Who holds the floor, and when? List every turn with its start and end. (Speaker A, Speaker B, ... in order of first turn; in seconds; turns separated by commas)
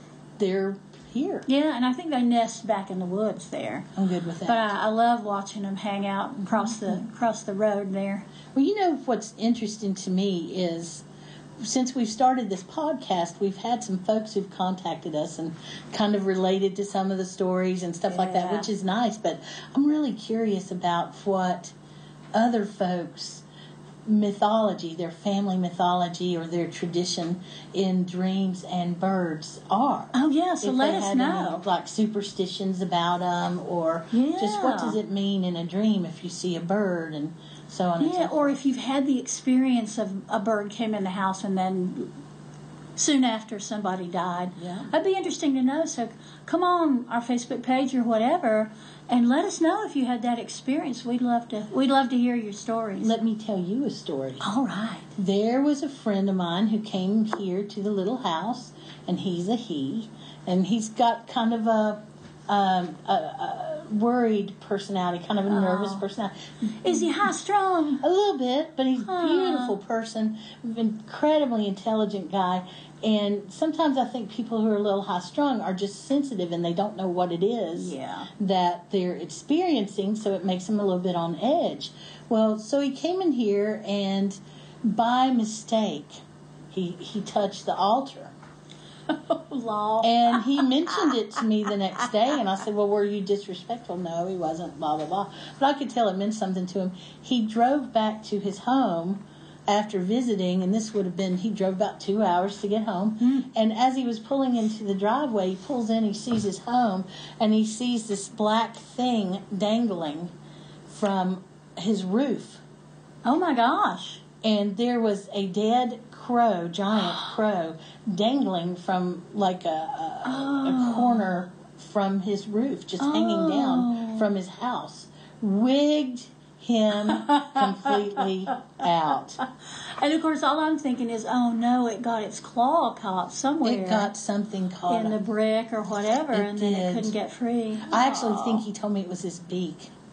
Speaker A: 0.4-1.5, Speaker B: 1.5-3.9, Speaker A: 4.0-4.7, Speaker B: 4.5-8.3, Speaker A: 6.4-7.0, Speaker A: 8.6-11.1, Speaker A: 11.6-21.7, Speaker B: 18.1-18.7, Speaker A: 22.3-23.4, Speaker A: 24.1-38.6, Speaker B: 30.1-31.6, Speaker B: 34.1-35.0, Speaker B: 38.0-42.1, Speaker B: 43.0-53.1, Speaker A: 44.6-44.9, Speaker A: 53.0-54.5, Speaker B: 54.4-55.1, Speaker A: 55.1-67.2, Speaker B: 65.5-66.0, Speaker B: 66.8-68.0, Speaker A: 68.0-88.3, Speaker B: 69.0-69.8, Speaker B: 77.7-78.3, Speaker B: 89.1-91.1, Speaker A: 90.0-110.3, Speaker B: 103.2-103.5, Speaker A: 110.9-112.6, Speaker B: 113.2-114.2, Speaker A: 114.4-129.4, Speaker B: 120.2-121.3, Speaker B: 123.0-124.3, Speaker B: 127.1-127.9, Speaker B: 129.8-134.1, Speaker A: 133.6-135.2, Speaker B: 134.9-138.6, Speaker A: 136.3-137.1, Speaker A: 137.8-139.9